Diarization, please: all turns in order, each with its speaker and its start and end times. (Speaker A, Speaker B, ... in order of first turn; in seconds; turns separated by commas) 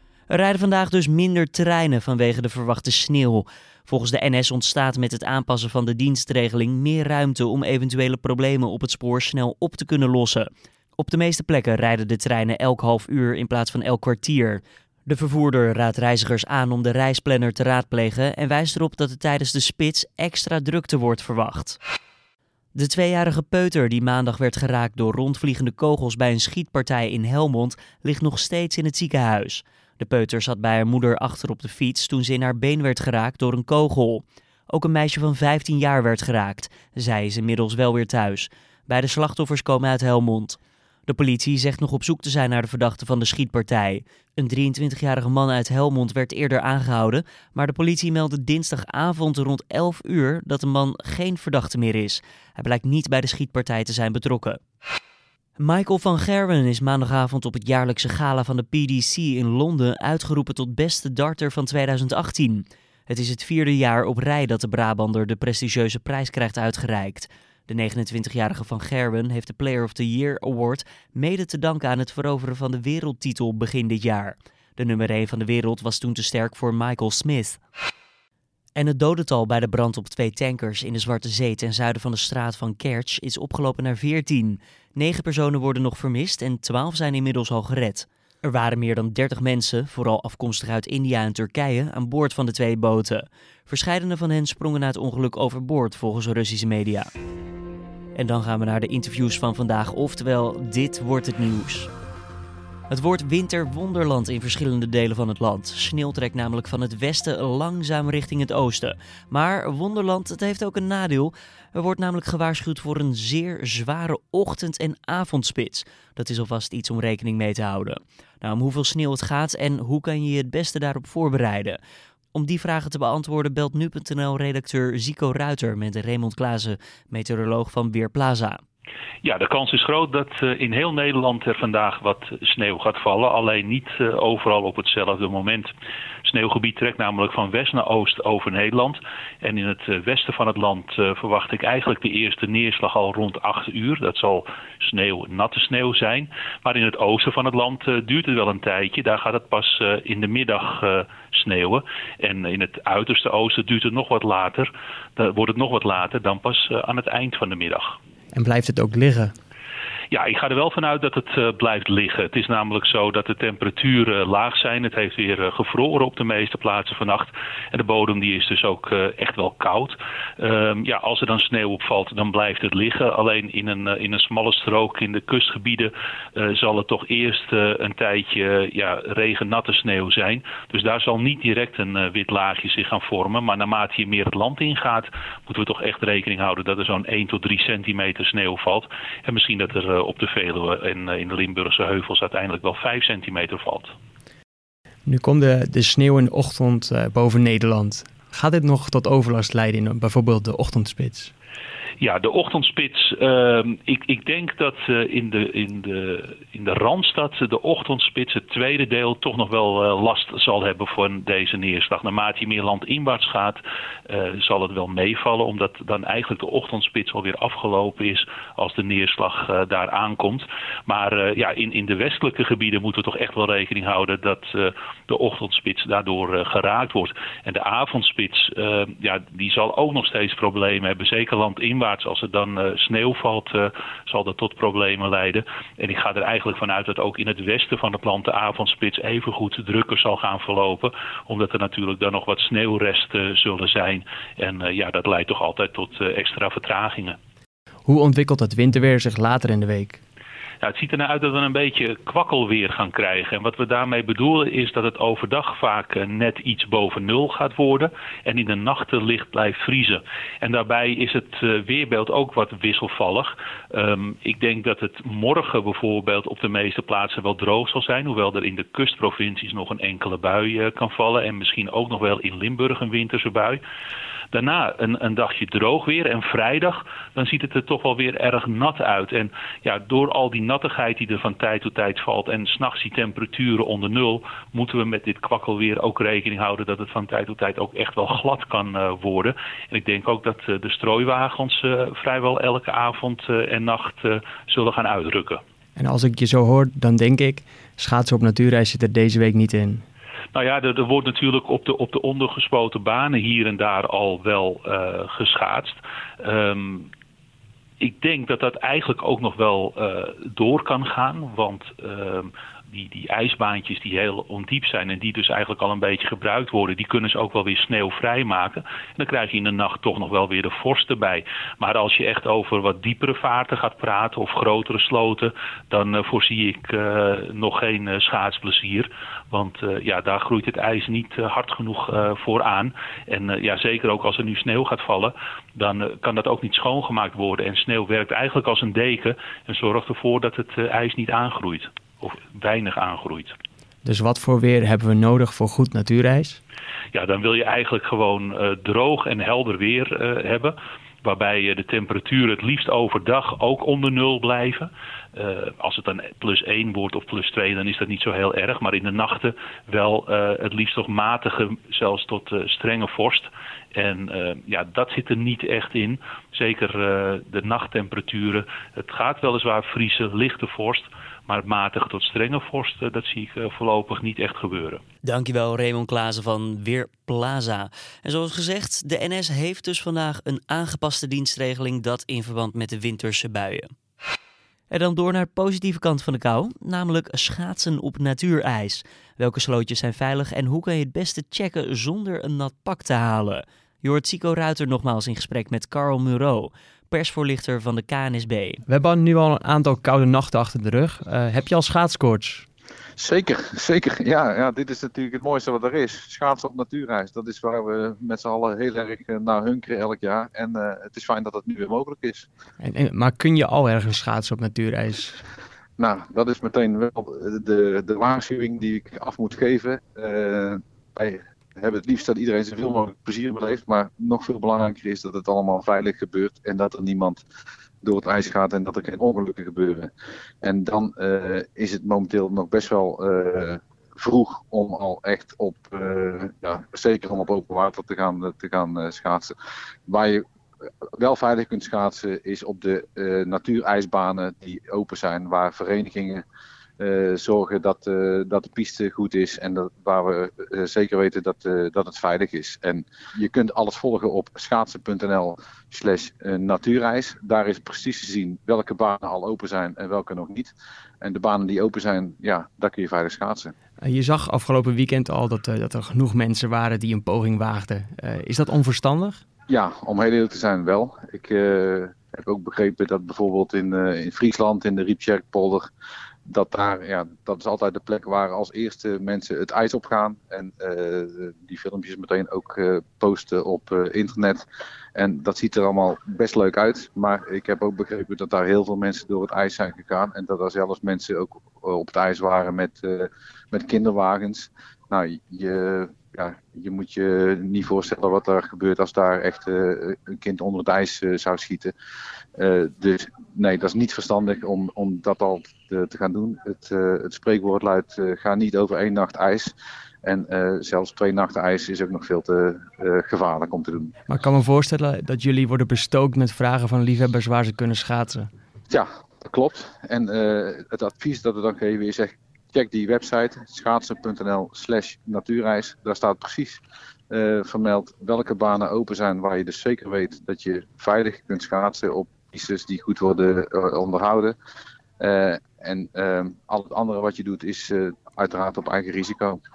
Speaker A: 0.3-21.8, Speaker A: 22.8-54.6, Speaker A: 55.6-77.6, Speaker A: 78.8-97.1, Speaker A: 98.2-101.9, Speaker A: 102.9-121.8, Speaker A: 122.3-128.6, Speaker B: 129.2-135.7, Speaker B: 136.2-158.0, Speaker C: 158.3-159.3, Speaker B: 160.1-193.9, Speaker C: 195.1-201.3, Speaker B: 202.0-247.2, Speaker C: 247.9-250.0, Speaker B: 250.6-273.6, Speaker B: 274.3-295.4, Speaker C: 295.8-299.8, Speaker B: 300.3-306.9, Speaker B: 307.8-343.4, Speaker C: 343.8-346.4, Speaker B: 346.9-374.8, Speaker A: 375.0-383.7, Speaker A: 384.7-398.6, Speaker C: 398.7-402.5, Speaker D: 403.0-412.3, Speaker C: 412.6-415.2, Speaker D: 415.8-427.2, Speaker D: 427.8-429.9, Speaker D: 430.4-439.3, Speaker D: 439.9-440.2, Speaker D: 441.0-446.2, Speaker D: 446.8-463.5, Speaker C: 463.8-469.2, Speaker D: 469.5-475.7, Speaker D: 476.3-484.4, Speaker D: 485.0-501.7, Speaker D: 502.4-513.9, Speaker C: 514.1-518.3, Speaker D: 518.7-534.4, Speaker D: 535.0-539.4